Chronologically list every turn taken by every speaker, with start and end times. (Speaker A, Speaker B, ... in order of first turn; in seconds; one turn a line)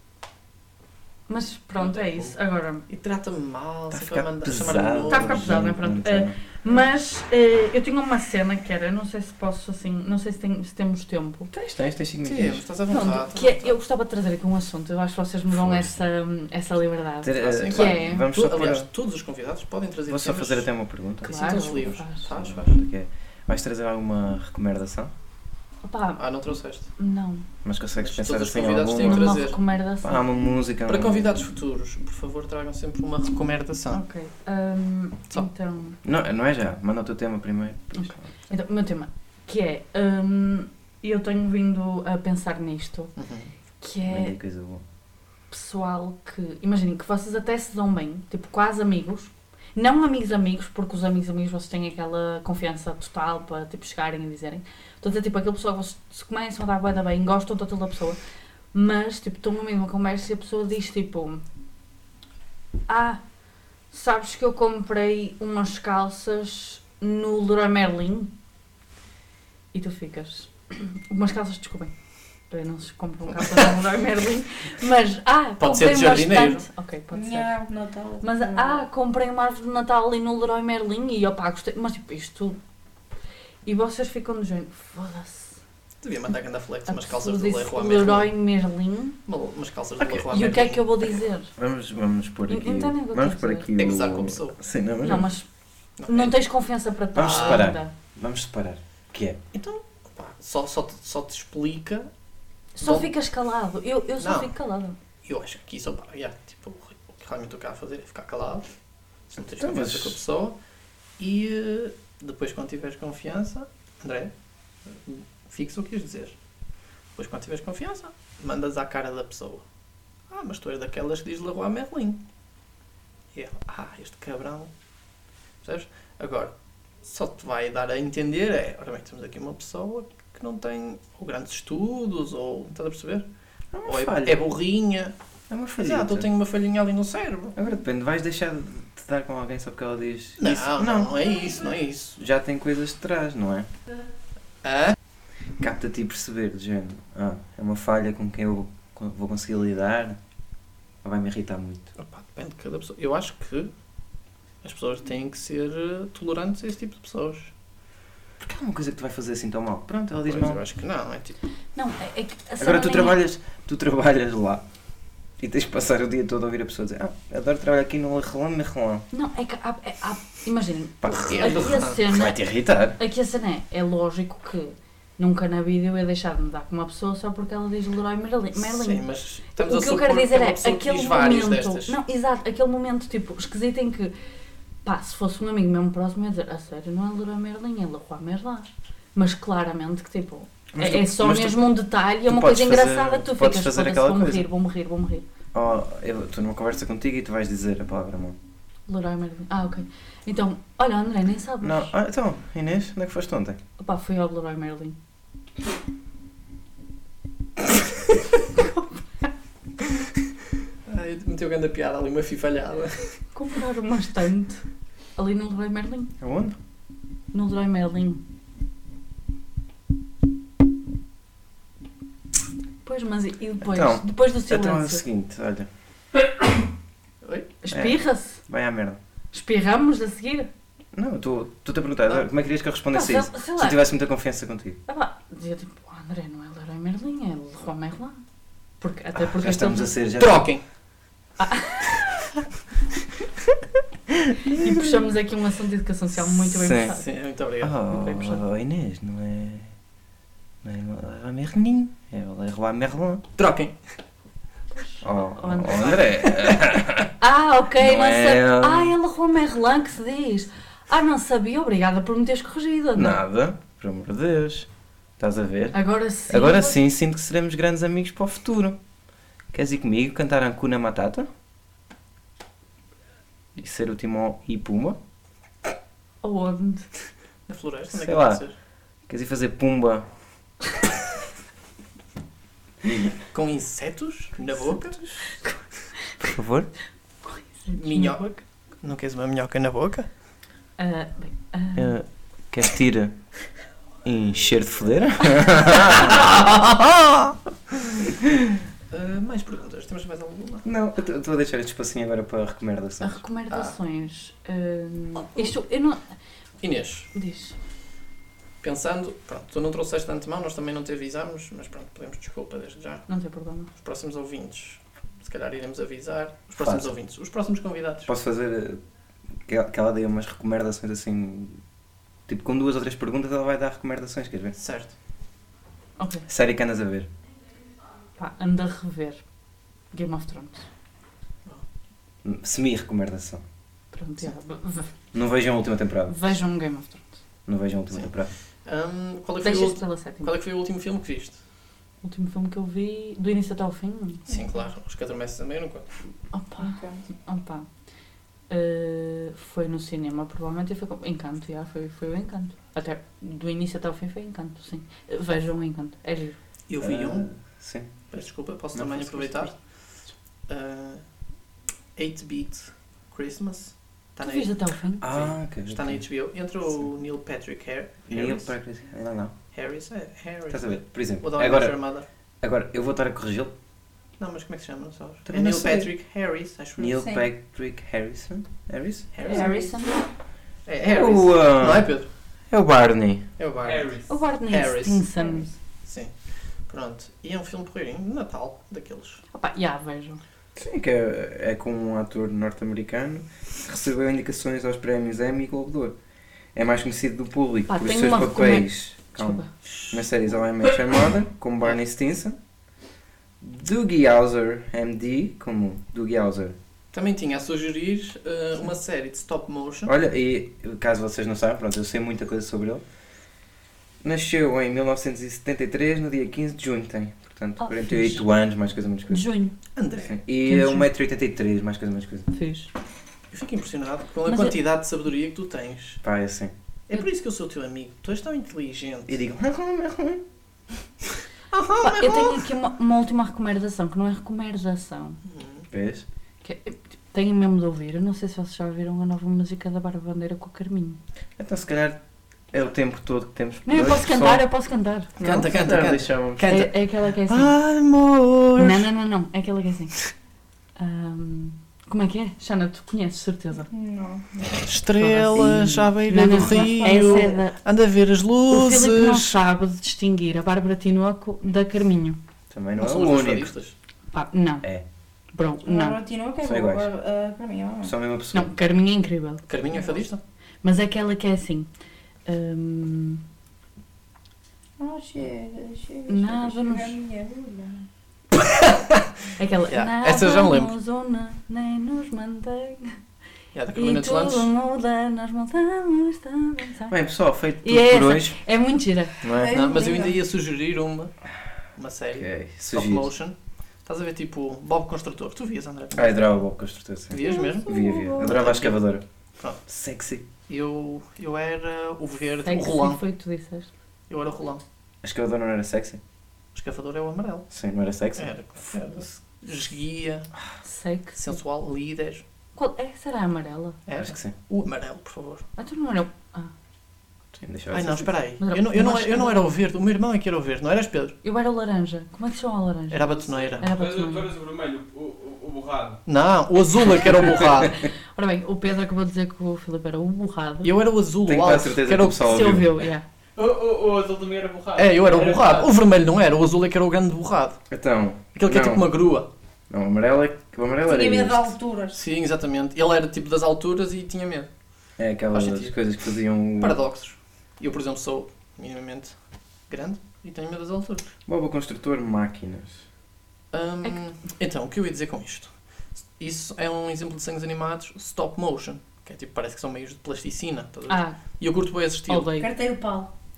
Speaker A: 1.3-2.9
Speaker B: 1.8-2.3
Speaker B: 2.9-5.5
Speaker C: 3.9-6.4
Speaker A: 5.1-11.5
Speaker C: 11.5-12.6
Speaker B: 12.2-13.8
Speaker A: 12.9-18.3
Speaker C: 15.5-15.9
Speaker C: 17.2-18.9
Speaker B: 17.4-20.7
Speaker C: 20.1-25.1
Speaker B: 21.2-22.8
Speaker A: 21.2-22.2
Speaker A: 25.8-26.2
Speaker B: 26.2-26.9
Speaker A: 27.0-27.4
Speaker C: 27.6-29.4
Speaker B: 28.0-29.6
Speaker A: 29.0-30.3
Speaker C: 30.0-31.3
Speaker B: 30.9-34.0
Speaker A: 33.9-36.0
Speaker C: 36.0-38.3
Speaker A: 38.0-43.1
Speaker B: 43.2-43.5
Speaker A: 43.8-44.4
Speaker C: 44.1-44.8
Speaker A: 45.5-58.2
Speaker A: 58.7-61.4
Speaker A: 62.9-63.2
Speaker A: 63.9-68.3
Speaker A: 69.7-71.9
Speaker A: 72.5-77.6
Speaker B: 75.6-76.7
Speaker D: 77.1-78.8
Speaker A: 78.2-82.6
Speaker A: 83.7-85.6
Speaker B: 86.0-88.3
Speaker A: 86.9-89.2
Speaker B: 89.3-91.2
Speaker C: 90.0-90.2
Speaker A: 90.3-91.5
Speaker C: 91.6-95.3
Speaker A: 92.5-93.7
Speaker B: 93.8-94.6
Speaker A: 95.0-95.5
Speaker B: 96.0-96.3
Speaker A: 96.1-97.9
Speaker C: 97.2-99.4
Speaker B: 97.2-97.7
Speaker B: 99.5-102.1
Speaker A: 102.8-105.0
Speaker B: 102.8-103.1
Speaker B: 104.2-104.5
Speaker B: 105.2-108.7
Speaker B: 109.3-110.6
Speaker C: 109.5-110.2
Speaker B: 111.2-114.3
Speaker B: 115.0-116.3
Speaker B: 117.2-119.6
Speaker B: 120.3-122.2
Speaker B: 123.3-124.7
Speaker B: 125.6-133.3
Speaker C: 133.7-134.4
Speaker B: 133.8-135.2
Speaker C: 135.5-136.3
Speaker B: 135.8-137.6
Speaker C: 137.6-141.2
Speaker B: 140.4-142.2
Speaker C: 142.2-143.7
Speaker B: 144.6-145.0
Speaker C: 145.6-150.2
Speaker C: 151.0-151.9
Speaker B: 152.0-153.7
Speaker B: 154.6-157.5
Speaker C: 158.4-160.6
Speaker B: 160.2-161.4
Speaker A: 161.8-163.2
Speaker C: 162.6-164.6
Speaker C: 165.4-169.1
Speaker A: 169.1-172.4
Speaker C: 171.0-173.0
Speaker B: 171.1-172.0
Speaker A: 173.0-184.1
Speaker B: 178.6-182.0
Speaker A: 184.8-195.2
Speaker C: 190.7-191.7
Speaker C: 192.3-194.5
Speaker C: 195.5-198.4
Speaker A: 198.9-201.9
Speaker C: 201.6-203.6
Speaker A: 203.8-205.0
Speaker B: 210.9-213.2
Speaker A: 213.3-214.7
Speaker A: 215.2-216.1
Speaker C: 216.2-216.6
Speaker A: 217.3-218.2
Speaker A: 222.8-225.0
Speaker C: 223.6-225.7
Speaker B: 227.2-227.5
Speaker A: 227.6-228.4
Speaker C: 227.7-229.0
Speaker A: 229.3-230.5
Speaker C: 230.9-234.8
Speaker A: 232.9-233.8
Speaker A: 234.9-238.2
Speaker A: 238.8-240.0
Speaker C: 239.2-240.5
Speaker B: 240.2-240.6
Speaker A: 241.4-241.9
Speaker C: 244.3-245.2
Speaker A: 244.5-247.1
Speaker C: 246.5-246.9
Speaker B: 246.9-247.8
Speaker C: 247.6-249.7
Speaker A: 247.9-248.4
Speaker C: 250.6-253.2
Speaker B: 253.4-253.8
Speaker A: 254.7-256.2
Speaker C: 255.0-257.1
Speaker A: 257.2-263.2
Speaker C: 257.8-258.9
Speaker C: 262.9-268.8
Speaker A: 265.7-266.8
Speaker C: 269.5-271.3
Speaker C: 273.6-275.0
Speaker A: 276.2-276.9
Speaker B: 277.5-278.6
Speaker C: 278.0-278.4
Speaker C: 279.1-280.1
Speaker B: 283.3-285.0
Speaker C: 286.2-286.7
Speaker A: 287.2-288.4
Speaker B: 287.7-288.3
Speaker B: 288.8-290.1
Speaker A: 290.8-292.0
Speaker C: 291.8-293.2
Speaker C: 294.0-296.7
Speaker B: 296.3-296.8
Speaker B: 298.9-300.6
Speaker C: 300.6-303.2
Speaker A: 303.0-306.0
Speaker B: 303.5-303.8
Speaker B: 306.6-307.1
Speaker A: 307.1-307.6
Speaker B: 308.6-313.1
Speaker A: 313.1-313.7
Speaker B: 313.7-318.1
Speaker C: 316.6-316.9
Speaker C: 318.1-318.8
Speaker C: 319.4-321.6
Speaker C: 322.3-324.6
Speaker B: 324.6-324.9
Speaker A: 326.0-326.2
Speaker C: 326.3-327.1
Speaker A: 328.2-329.2
Speaker A: 329.9-330.7
Speaker C: 332.2-333.4
Speaker A: 333.9-334.9
Speaker C: 335.1-336.2
Speaker A: 336.1-337.1
Speaker C: 337.5-338.3
Speaker B: 338.6-341.4
Speaker A: 339.4-340.3
Speaker A: 342.0-344.4
Speaker B: 344.3-345.9
Speaker A: 346.3-347.7
Speaker D: 346.6-347.0
Speaker A: 348.5-356.4
Speaker B: 356.7-357.4
Speaker C: 356.8-357.9
Speaker B: 358.1-359.8
Speaker C: 358.7-359.5
Speaker B: 360.5-361.1
Speaker B: 362.0-368.5
Speaker A: 364.2-365.1
Speaker C: 365.0-366.0
Speaker C: 368.1-369.3
Speaker B: 369.5-372.1
Speaker C: 370.5-371.8
Speaker C: 372.4-373.5
Speaker B: 374.2-377.1
Speaker C: 375.3-375.9
Speaker C: 376.8-379.1
Speaker D: 376.9-377.3
Speaker B: 379.1-379.5
Speaker A: 379.2-380.0
Speaker D: 379.2-380.0
Speaker B: 380.7-382.1
Speaker C: 380.8-381.9
Speaker C: 382.5-383.3
Speaker B: 383.4-384.0
Speaker E: 383.6-384.1
Speaker A: 384.1-385.5
Speaker B: 384.5-385.0
Speaker B: 385.9-386.1
Speaker B: 386.6-389.2
Speaker A: 389.3-390.2
Speaker C: 390.6-395.9
Speaker C: 396.6-402.4
Speaker A: 397.7-399.5
Speaker C: 403.4-406.6
Speaker B: 406.9-409.9
Speaker C: 409.9-412.8
Speaker C: 414.0-419.3
Speaker A: 417.6-418.3
Speaker A: 419.1-419.6
Speaker B: 419.8-420.2
Speaker C: 420.0-422.3
Speaker A: 420.5-420.9
Speaker A: 422.3-422.7
Speaker B: 423.3-426.0
Speaker A: 424.2-424.6
Speaker C: 426.0-426.5
Speaker B: 426.9-429.2
Speaker C: 429.1-430.2
Speaker B: 431.5-432.4
Speaker A: 431.8-435.2
Speaker B: 435.3-435.6
Speaker C: 435.7-436.1
Speaker A: 436.4-441.0
Speaker C: 441.4-442.0
Speaker C: 442.5-444.4
Speaker A: 443.7-445.4
Speaker C: 445.2-446.5
Speaker B: 445.2-448.9
Speaker A: 446.4-447.6
Speaker A: 448.6-450.0
Speaker A: 450.8-453.7
Speaker D: 453.7-454.6
Speaker B: 454.6-459.4
Speaker A: 455.0-457.6
Speaker D: 456.6-457.4
Speaker A: 458.5-462.2
Speaker C: 462.5-463.5
Speaker B: 462.8-463.8
Speaker A: 464.1-464.7
Speaker A: 465.3-466.0
Speaker D: 465.7-467.9
Speaker C: 466.4-466.9
Speaker C: 467.8-468.5
Speaker A: 468.3-469.4
Speaker B: 469.5-470.2
Speaker A: 470.6-471.7
Speaker A: 472.3-473.2
Speaker D: 474.8-477.9
Speaker A: 476.1-477.0
Speaker B: 478.5-479.0
Speaker A: 479.4-483.0
Speaker B: 479.7-480.7
Speaker B: 483.5-484.5
Speaker A: 483.7-487.0
Speaker C: 486.9-488.4
Speaker A: 487.6-489.2
Speaker C: 489.2-489.7
Speaker D: 489.3-490.2
Speaker B: 489.5-491.1
Speaker B: 491.8-496.4
Speaker C: 492.1-493.1
Speaker C: 495.9-499.0
Speaker B: 497.1-498.8
Speaker D: 497.2-498.3
Speaker C: 499.7-500.2
Speaker B: 500.5-503.0
Speaker A: 502.4-503.7
Speaker B: 504.1-504.6
Speaker C: 505.0-506.0
Speaker B: 506.5-507.5
Speaker C: 507.5-508.8
Speaker B: 508.2-510.3
Speaker A: 510.6-511.4
Speaker B: 511.2-512.2
Speaker A: 512.5-513.8
Speaker B: 513.9-515.5
Speaker C: 514.0-514.3
Speaker A: 515.6-516.5
Speaker C: 517.4-518.2
Speaker B: 517.7-521.2
Speaker A: 518.4-519.5
Speaker A: 521.2-524.3
Speaker B: 522.9-523.7
Speaker E: 523.3-526.0
Speaker B: 526.1-527.8
Speaker A: 527.7-530.7
Speaker B: 530.6-532.6
Speaker C: 531.2-532.7
Speaker A: 532.2-533.0
Speaker E: 533.4-535.7
Speaker B: 534.8-537.6
Speaker C: 537.7-538.9
Speaker B: 538.4-539.3
Speaker C: 539.7-541.5
Speaker D: 540.9-542.0
Speaker B: 541.9-544.5
Speaker C: 545.0-546.8
Speaker B: 545.3-545.8
Speaker B: 546.6-549.1
Speaker B: 549.7-551.1
Speaker C: 551.3-552.8
Speaker B: 553.5-555.6
Speaker B: 556.2-562.3
Speaker A: 560.9-561.2
Speaker A: 562.1-562.5
Speaker D: 562.4-563.1